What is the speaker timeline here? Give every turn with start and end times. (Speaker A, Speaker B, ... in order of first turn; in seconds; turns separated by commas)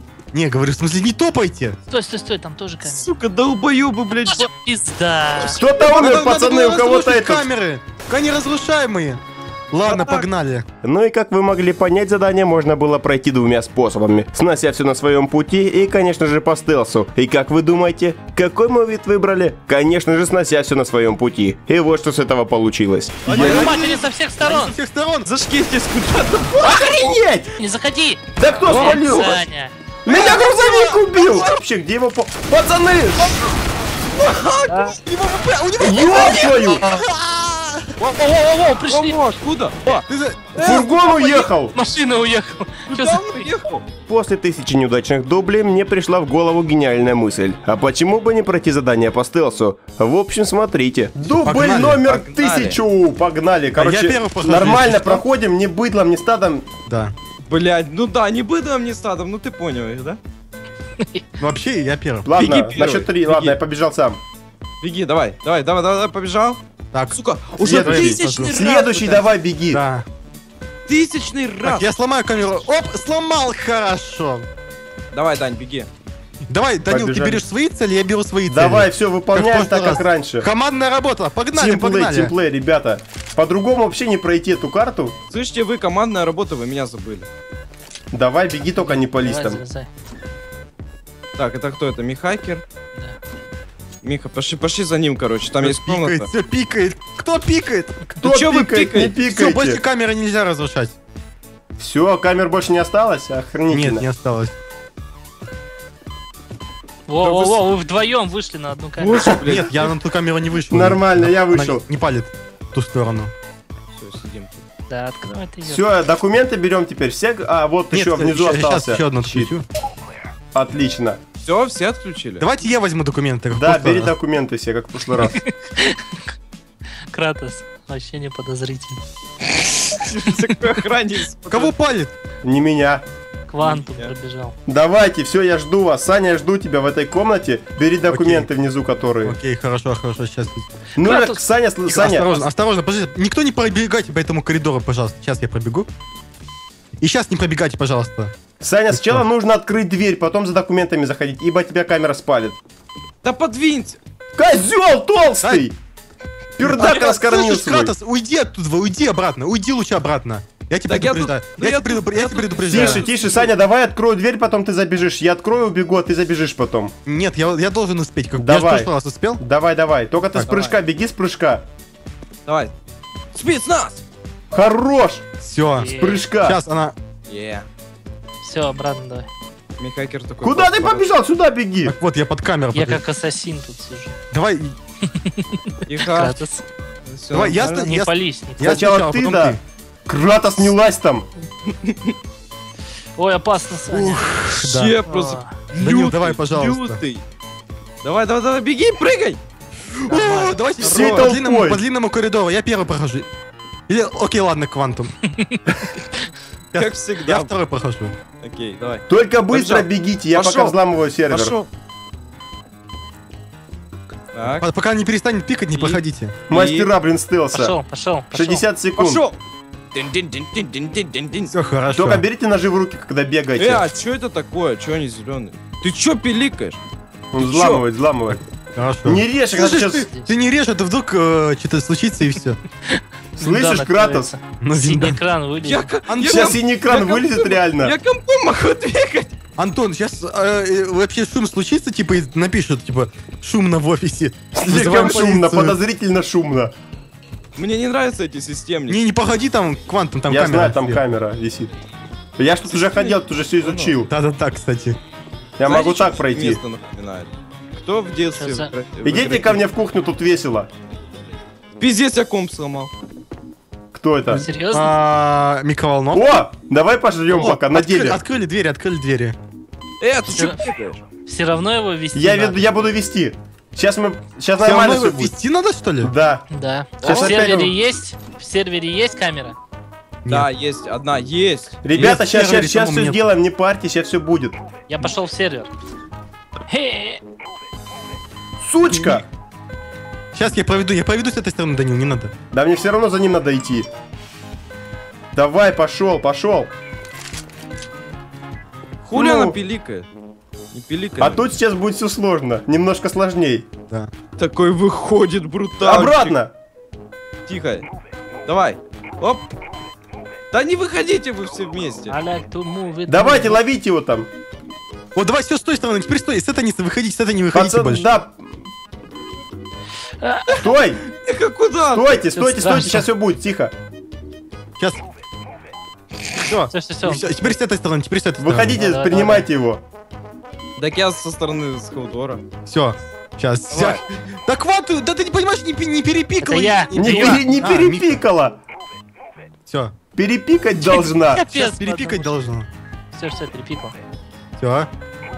Speaker A: 0.3-1.8, Speaker B: 1.9-3.1, Speaker C: 2.8-4.5, Speaker B: 4.3-5.6, Speaker D: 5.4-7.5, Speaker A: 5.8-9.2, Speaker A: 9.7-10.7, Speaker C: 9.7-10.3, Speaker D: 10.8-23.7, Speaker A: 23.2-25.3, Speaker B: 23.3-24.7, Speaker C: 25.3-26.8, Speaker D: 26.5-27.5, Speaker B: 27.6-29.8, Speaker D: 28.4-29.4, Speaker C: 28.7-29.4, Speaker D: 30.1-33.4, Speaker A: 30.1-31.1, Speaker C: 31.2-31.6, Speaker C: 34.1-36.8, Speaker B: 34.7-35.0, Speaker A: 35.6-38.1, Speaker D: 35.8-36.9, Speaker B: 38.0-39.2, Speaker C: 38.9-41.1, Speaker A: 39.9-40.5, Speaker D: 40.6-41.8, Speaker B: 41.2-43.5, Speaker C: 42.9-43.9, Speaker D: 44.1-56.6, Speaker A: 51.3-52.1, Speaker C: 52.1-52.8, Speaker A: 53.8-55.3, Speaker A: 56.9-57.1, Speaker C: 57.5-60.2, Speaker A: 61.4-62.3, Speaker D: 62.2-64.2, Speaker C: 62.4-63.6, Speaker C: 64.8-66.6, Speaker A: 66.9-68.7, Speaker C: 67.1-69.3, Speaker D: 67.6-69.8, Speaker A: 69.7-70.1, Speaker C: 70.9-71.9, Speaker A: 71.6-74.5, Speaker C: 75.1-75.9, Speaker A: 76.5-82.3, Speaker D: 76.9-77.4, Speaker D: 78.5-80.5, Speaker D: 81.5-85.2, Speaker C: 85.3-87.3, Speaker D: 88.1-89.6, Speaker B: 88.8-89.9, Speaker C: 91.4-92.6, Speaker C: 94.0-96.3, Speaker A: 95.6-97.9, Speaker D: 98.2-99.8, Speaker C: 98.2-99.2, Speaker A: 99.2-101.0, Speaker D: 101.8-104.1, Speaker A: 103.7-104.5, Speaker B: 107.1-109.3, Speaker D: 107.2-107.6, Speaker C: 109.0-109.9, Speaker A: 109.3-113.3, Speaker D: 110.7-111.8, Speaker C: 114.0-114.6, Speaker B: 114.9-115.8, Speaker D: 115.7-119.5, Speaker A: 117.9-119.6, Speaker D: 120.5-121.2, Speaker C: 121.4-122.5, Speaker A: 122.4-124.1, Speaker D: 123.5-125.4, Speaker B: 125.2-126.2, Speaker B: 127.1-129.0, Speaker C: 129.8-131.7, Speaker A: 131.5-132.1, Speaker D: 132.4-133.1, Speaker B: 133.5-134.6, Speaker C: 133.6-134.1, Speaker D: 134.7-139.4, Speaker A: 138.1-138.5, Speaker A: 139.2-140.7, Speaker D: 141.0-142.3, Speaker B: 141.0-141.4, Speaker A: 141.9-145.9, Speaker A: 147.0-148.3, Speaker D: 148.6-152.6, Speaker A: 148.9-149.2, Speaker C: 153.2-154.0, Speaker D: 154.3-155.8, Speaker D: 156.6-157.9, Speaker A: 156.6-163.1, Speaker C: 156.8-157.1, Speaker C: 160.9-163.5, Speaker D: 162.7-166.9, Speaker A: 167.1-169.4, Speaker D: 168.4-171.6, Speaker C: 170.5-170.8, Speaker C: 172.5-172.7, Speaker C: 173.3-174.0, Speaker D: 174.5-175.2, Speaker A: 175.4-176.9, Speaker B: 175.8-176.2, Speaker D: 175.9-176.6, Speaker C: 177.3-177.7, Speaker B: 178.4-179.3, Speaker C: 179.8-181.1, Speaker D: 180.4-181.9, Speaker A: 181.8-183.0, Speaker B: 182.7-184.2, Speaker A: 184.3-184.8, Speaker B: 185.1-186.6, Speaker C: 185.9-186.4, Speaker C: 187.1-187.9, Speaker A: 187.3-189.6, Speaker B: 187.6-188.8, Speaker D: 188.6-191.3, Speaker C: 191.8-192.1, Speaker B: 193.2-194.5, Speaker A: 193.9-195.0, Speaker C: 194.6-197.2, Speaker B: 195.1-195.5, Speaker A: 195.8-197.0, Speaker C: 198.0-199.4, Speaker A: 200.0-203.3, Speaker B: 200.1-200.7, Speaker D: 200.8-201.8, Speaker C: 200.8-201.3, Speaker A: 203.9-205.2, Speaker C: 206.7-207.5, Speaker A: 206.7-208.1, Speaker C: 208.4-210.8, Speaker D: 209.1-211.6, Speaker C: 211.3-211.7, Speaker C: 214.3-214.7, Speaker A: 214.6-216.3, Speaker C: 215.7-216.9, Speaker D: 216.5-217.8, Speaker B: 217.5-218.7, Speaker D: 218.3-219.2, Speaker C: 219.0-219.4, Speaker C: 219.9-221.5, Speaker A: 221.5-222.2, Speaker D: 221.9-223.8, Speaker C: 223.6-226.8, Speaker D: 227.3-228.4, Speaker C: 227.4-227.8, Speaker A: 228.8-232.6, Speaker D: 229.0-230.1, Speaker B: 233.0-235.9, Speaker D: 233.4-234.3, Speaker A: 234.6-235.2, Speaker C: 235.6-239.3, Speaker A: 236.1-236.6, Speaker D: 236.2-237.9, Speaker A: 239.6-245.8, Speaker D: 244.5-246.7, Speaker C: 247.6-249.0, Speaker A: 248.9-251.0, Speaker D: 250.3-251.7, Speaker D: 252.4-254.1, Speaker C: 252.7-253.9, Speaker A: 254.1-255.0, Speaker D: 255.6-256.6, Speaker C: 255.7-259.6, Speaker B: 258.4-258.7, Speaker D: 259.0-260.7, Speaker C: 261.8-262.9, Speaker D: 263.9-264.5, Speaker B: 264.3-264.9, Speaker A: 264.7-266.3, Speaker D: 266.1-268.2, Speaker A: 267.3-269.4, Speaker C: 270.0-271.0, Speaker B: 270.3-272.6, Speaker D: 272.1-275.4, Speaker A: 274.6-276.1, Speaker D: 276.0-276.5, Speaker B: 276.5-279.6, Speaker D: 277.0-277.8, Speaker C: 277.0-277.4, Speaker C: 280.3-281.8, Speaker D: 281.8-284.6, Speaker A: 281.9-283.2, Speaker B: 284.9-285.7, Speaker B: 286.7-287.2, Speaker D: 288.6-289.3, Speaker A: 288.9-289.2, Speaker A: 290.3-292.3, Speaker D: 292.5-293.9, Speaker D: 295.3-296.7, Speaker C: 299.0-300.1, Speaker D: 299.1-299.6, Speaker C: 300.7-301.5, Speaker D: 301.2-303.7, Speaker C: 304.4-306.4, Speaker D: 305.8-306.5, Speaker C: 307.5-307.9, Speaker C: 308.4-309.5, Speaker C: 310.5-312.2, Speaker B: 312.1-313.6, Speaker D: 313.1-314.3, Speaker A: 315.1-318.1, Speaker D: 317.5-318.5, Speaker B: 320.2-320.7, Speaker D: 320.6-321.0, Speaker C: 321.1-322.2, Speaker D: 321.9-323.7, Speaker B: 322.3-323.1, Speaker A: 326.5-328.8, Speaker B: 326.7-327.6, Speaker D: 328.4-329.8, Speaker B: 328.7-329.5, Speaker C: 330.8-332.4, Speaker A: 332.7-338.2, Speaker C: 333.7-334.0, Speaker B: 336.4-337.5, Speaker D: 336.9-338.6, Speaker A: 339.7-339.9, Speaker D: 340.1-341.5, Speaker A: 340.8-342.7, Speaker B: 341.4-342.3, Speaker B: 343.1-343.9, Speaker A: 344.6-344.9